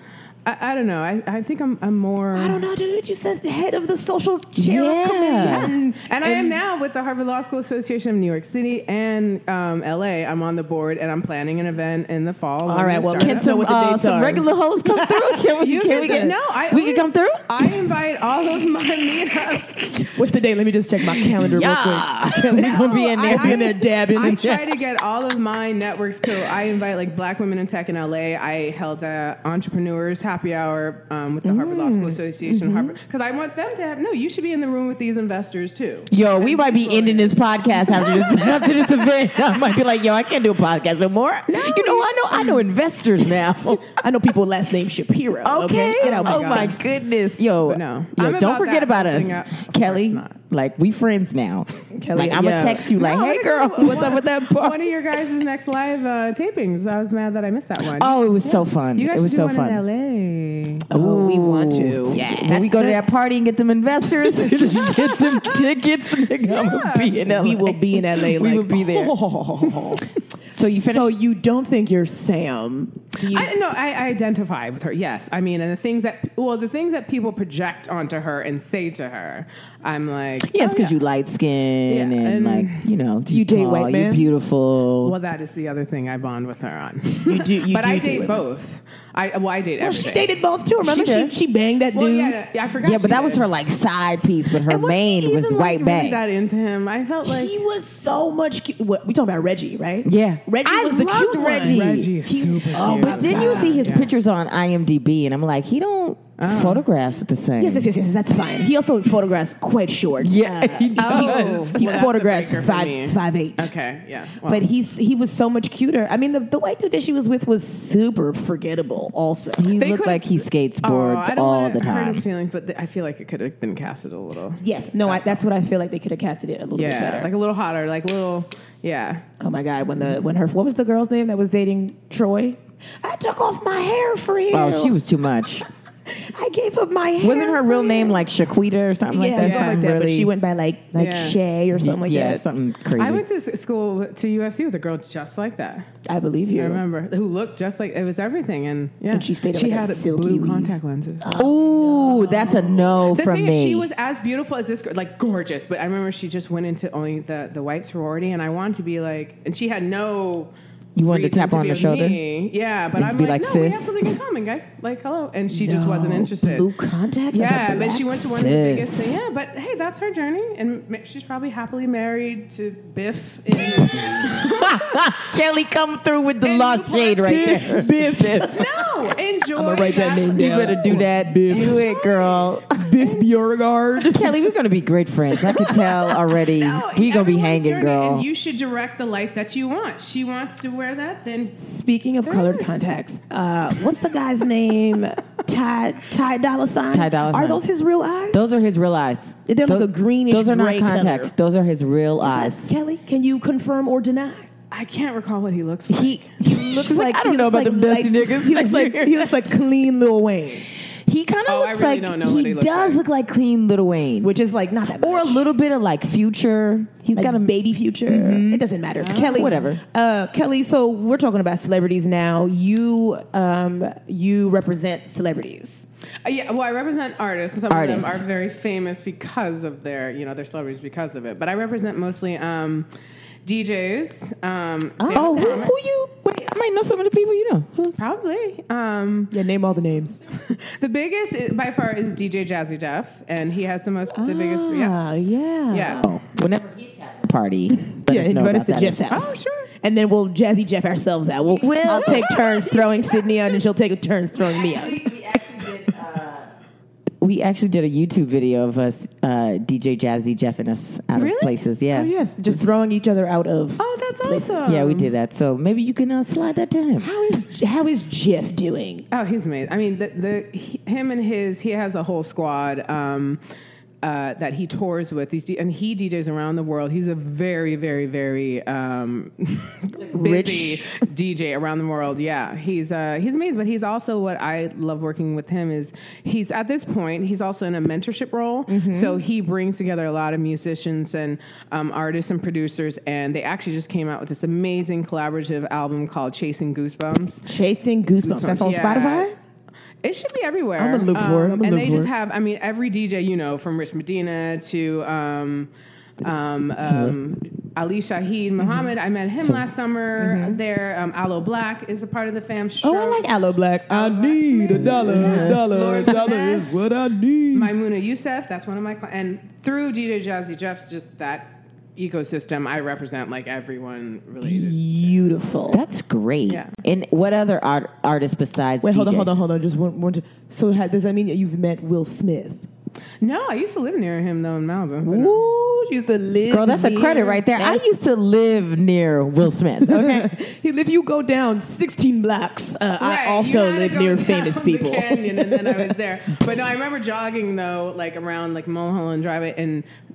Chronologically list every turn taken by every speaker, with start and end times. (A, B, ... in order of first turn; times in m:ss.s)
0:00.4-0:02.6 A
0:02.3-0:06.6 B
0:04.5-0:05.7 C
0:05.5-0:13.4 A
0:12.6-0:16.3 B
0:13.2-0:17.8 C
0:15.6-0:20.1 A
0:20.1-0:24.4 B
0:21.4-0:24.7 C
0:22.6-0:37.4 A
0:31.4-0:32.9 B
0:36.1-0:43.9 C
0:38.0-0:38.5 A
0:38.2-0:38.6 B
0:41.5-0:42.6 B
0:43.8-0:46.8 B
0:45.4-0:54.8 C
0:45.7-0:46.9 A
0:47.7-0:50.4 A
0:51.9-0:52.9 B
0:52.9-1:00.8 A
0:57.8-0:59.8 C
1:00.9-1:03.0 B
1:00.9-1:09.2 C
1:04.8-1:05.7 A
1:06.4-1:07.2 A
1:07.2-1:13.5 B
1:10.5-1:11.1 C
1:13.3-1:20.9 A
1:20.4-1:25.1 C
1:21.9-1:22.9 A
1:23.3-1:24.3 B
1:25.0-1:30.3 A
1:27.2-1:28.4 B
1:29.8-1:32.4 B
1:30.8-1:31.3 C
1:31.9-1:33.5 A
1:32.8-1:36.2 C
1:34.6-1:37.5 A
1:37.2-1:43.8 B
1:40.0-1:40.4 C
1:40.6-1:44.1 A
1:41.6-1:42.1 C
1:42.8-1:47.9 C
1:46.4-1:46.8 A
1:47.6-1:53.7 B
1:50.2-1:51.8 C
1:51.0-1:54.6 A
1:54.4-1:59.7 B
1:59.6-2:02.2 C
1:59.8-2:05.4 A
2:04.6-2:07.3 B
2:06.7-2:09.2 A
2:09.4-2:15.0 B
2:14.5-2:15.6 C
2:16.1-2:18.2 B
2:17.2-2:20.3 C
2:19.1-2:22.4 B
2:19.4-2:19.8 A
2:20.9-2:21.4 A
2:21.7-2:23.2 C
2:23.0-2:25.9 A
2:26.0-2:26.8 B
2:26.5-2:31.3 A
2:29.1-2:33.0 B
2:31.4-2:33.9 C
2:33.0-2:40.5 A
2:41.0-2:42.2 C
2:41.1-2:46.7 A
2:43.0-2:44.2 C
2:45.5-2:48.2 B
2:47.3-2:55.0 A
2:48.1-2:49.2 C
2:54.2-2:58.5 C
2:56.4-2:57.8 A
2:57.2-2:58.6 B
2:58.4-3:03.3 A
2:59.6-3:01.8 B
3:00.3-3:02.8 C
3:02.7-3:04.4 B
3:04.1-3:08.2 C
3:05.4-3:06.1 B
3:06.5-3:11.6 A
3:11.6-3:18.5 B
3:12.2-3:12.8 A
3:16.9-3:17.6 C
3:18.3-3:22.7 C
3:19.5-3:21.3 B
3:22.2-3:24.5 B
3:24.7-3:26.3 A
3:25.9-3:29.3 C
3:26.4-3:30.6 B
3:31.0-3:34.3 C
3:31.4-3:33.0 A
3:34.2-3:35.4 B
3:35.0-3:37.5 C
3:37.1-3:45.8 B
3:38.0-3:38.6 C
3:39.0-3:39.7 A
3:39.2-3:39.8 C
3:46.2-3:52.9 A
3:47.7-3:48.2 C
3:53.4-3:55.8 A
3:55.0-3:55.6 B
3:55.1-3:58.0 C
3:58.0-3:59.3 A
3:59.3-4:00.2 B
4:00.5-4:05.0 A
4:04.1-4:06.0 B
4:05.7-4:06.0 A
4:06.0-4:09.0 C
4:07.9-4:15.0 B
4:09.1-4:09.7 A
4:11.6-4:12.8 C
4:11.6-4:12.8 A
4:14.3-4:16.5 C
4:17.2-4:22.6 C
4:21.1-4:21.6 A
4:21.9-4:24.7 B
4:23.8-4:25.1 A
4:24.6-4:27.1 C
4:27.0-4:29.0 B
4:29.1-4:33.4 A
4:34.0-4:57.4 A
4:40.0-4:41.0 B
4:48.7-4:49.2 B
4:57.4-4:59.3 B
4:58.2-4:59.3 A
5:00.0-5:05.7 A
5:00.8-5:02.1 B
5:06.2-5:13.3 A
5:06.9-5:07.1 C
5:10.2-5:10.6 B
5:12.8-5:17.7 B
5:13.9-5:16.9 A
5:14.8-5:15.6 C
5:17.5-5:25.6 A
5:24.4-5:25.8 B
5:25.7-5:29.4 C
5:26.5-5:26.8 A
5:28.8-5:32.7 B
5:33.2-5:35.5 A
5:35.0-5:37.9 B
5:36.5-5:40.3 C
5:39.8-5:45.9 B
5:43.0-5:49.9 A